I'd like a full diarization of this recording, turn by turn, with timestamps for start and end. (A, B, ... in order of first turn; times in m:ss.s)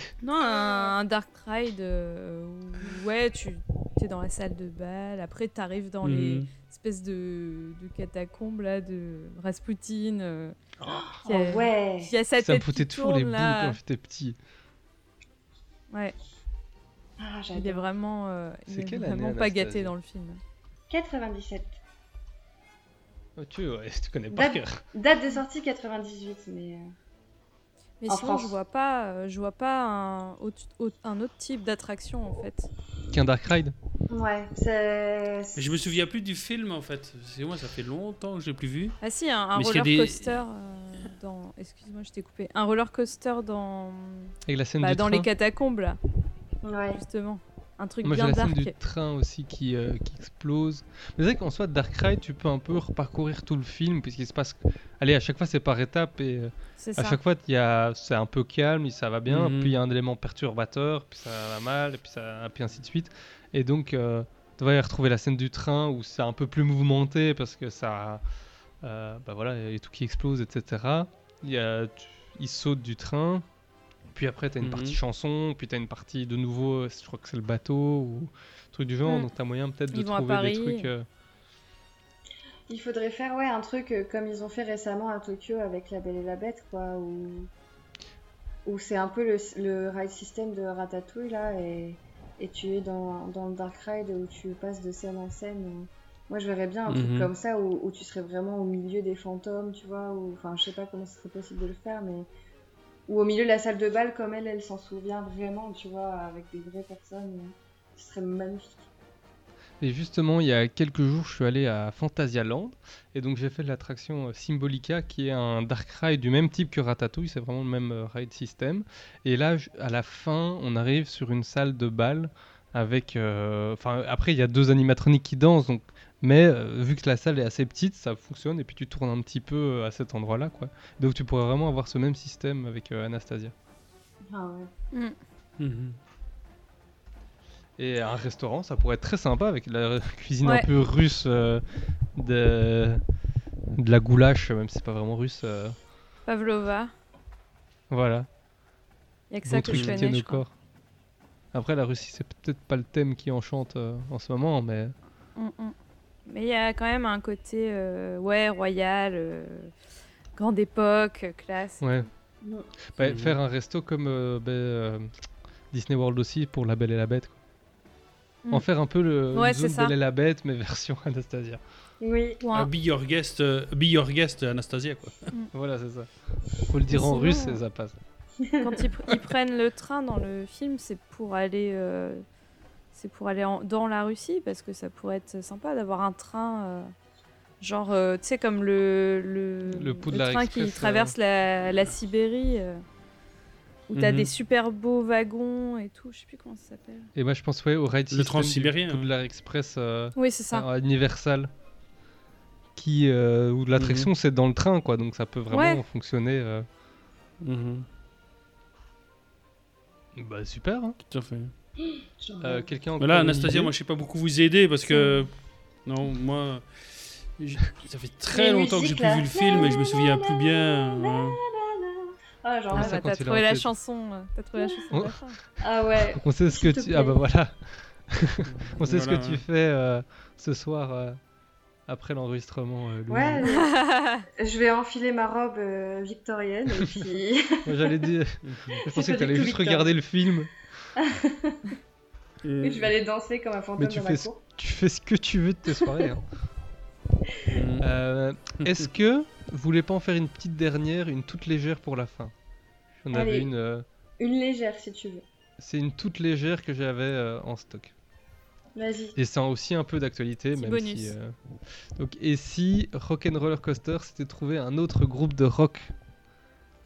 0:00.2-0:10.6 A
0:00.4-0:00.9 B
0:06.0-0:06.5 C
0:10.8-0:11.2 D
0:11.2-0:12.1 B
0:11.2-0:13.8 A
0:12.4-0:14.4 D
0:17.2-0:17.9 B
0:17.5-0:20.4 A
0:18.7-0:19.9 D
0:20.9-0:21.8 B
0:23.4-0:24.8 D
0:24.3-0:26.9 B
0:28.0-0:32.7 A
0:28.1-0:28.5 B
0:33.1-0:33.7 D
0:34.1-0:36.0 B
0:35.6-0:39.0 C
0:39.0-0:46.0 A
0:39.6-0:40.4 C
0:44.5-0:45.3 D
0:46.6-0:47.0 B
0:47.0-0:48.8 A
0:48.0-1:08.2 D
0:56.8-0:57.2 A
0:59.3-0:59.8 C
1:08.8-1:13.4 D
1:14.1-1:21.1 D
1:14.6-1:15.0 C
1:19.9-1:20.9 A
1:22.7-1:27.5 B
1:28.6-1:42.3 B
1:36.9-1:37.3 C
1:43.1-1:48.9 B
1:49.8-2:13.5 D
2:14.3-2:14.7 B
2:15.6-2:16.0 C
2:17.8-2:21.6 D
2:22.2-2:23.0 D
2:23.8-2:25.8 D
2:26.3-2:26.9 A
2:27.9-2:28.3 D
2:29.3-2:30.4 A
2:29.4-2:30.5 D
2:29.7-2:30.0 C
2:31.5-2:34.9 D
2:35.4-2:35.8 A
2:36.3-2:39.7 A
2:40.4-2:42.0 A
2:41.8-2:42.1 D
2:42.4-2:42.7 B
2:43.0-2:45.1 D
2:43.0-2:43.4 C
2:45.7-2:47.4 D
2:48.5-2:51.6 D
2:49.3-2:50.0 A
2:52.0-2:52.4 B
2:52.4-2:52.7 A
2:52.5-2:55.3 C
2:55.5-2:56.1 D
2:56.7-2:58.0 D
2:56.9-2:57.6 A
2:58.5-2:58.8 B
2:58.6-3:02.2 A
3:02.9-3:06.9 A
3:07.6-3:12.8 A
3:09.7-3:11.2 D
3:13.9-3:17.1 A
3:13.9-3:14.3 C
3:17.2-3:21.5 D
3:18.1-3:19.1 C
3:20.2-3:20.7 A
3:22.8-3:26.6 D
3:23.8-3:24.1 C
3:25.5-3:25.8 A
3:27.4-3:27.9 C
3:30.2-3:31.0 D
3:31.1-3:31.5 C
3:31.8-3:32.7 B
3:32.4-3:33.7 D
3:33.0-3:35.3 C
3:35.8-3:41.4 C
3:38.3-3:43.0 B
3:42.7-3:43.7 D
3:42.7-3:45.4 A
3:44.9-3:45.2 D
3:45.6-3:47.2 B
3:46.0-3:51.2 D
3:48.5-3:49.4 C
3:51.9-3:53.4 D
3:53.1-3:53.8 B
3:53.4-3:54.2 A
3:54.4-3:58.1 B
3:57.7-4:00.5 D
3:58.4-3:58.8 C
3:58.9-4:00.1 B
4:01.0-4:01.7 B
4:02.4-4:02.9 C
4:02.6-4:04.4 B
4:03.8-4:06.2 D
4:07.5-4:07.9 C
4:07.8-4:12.3 D
4:08.6-4:08.9 C
4:13.0-4:13.8 D
4:13.1-4:13.5 B
4:14.2-4:15.2 B
4:15.6-4:17.9 D
4:18.8-4:19.2 B
4:19.2-4:21.4 D
4:20.6-4:21.1 A
4:22.0-4:25.9 D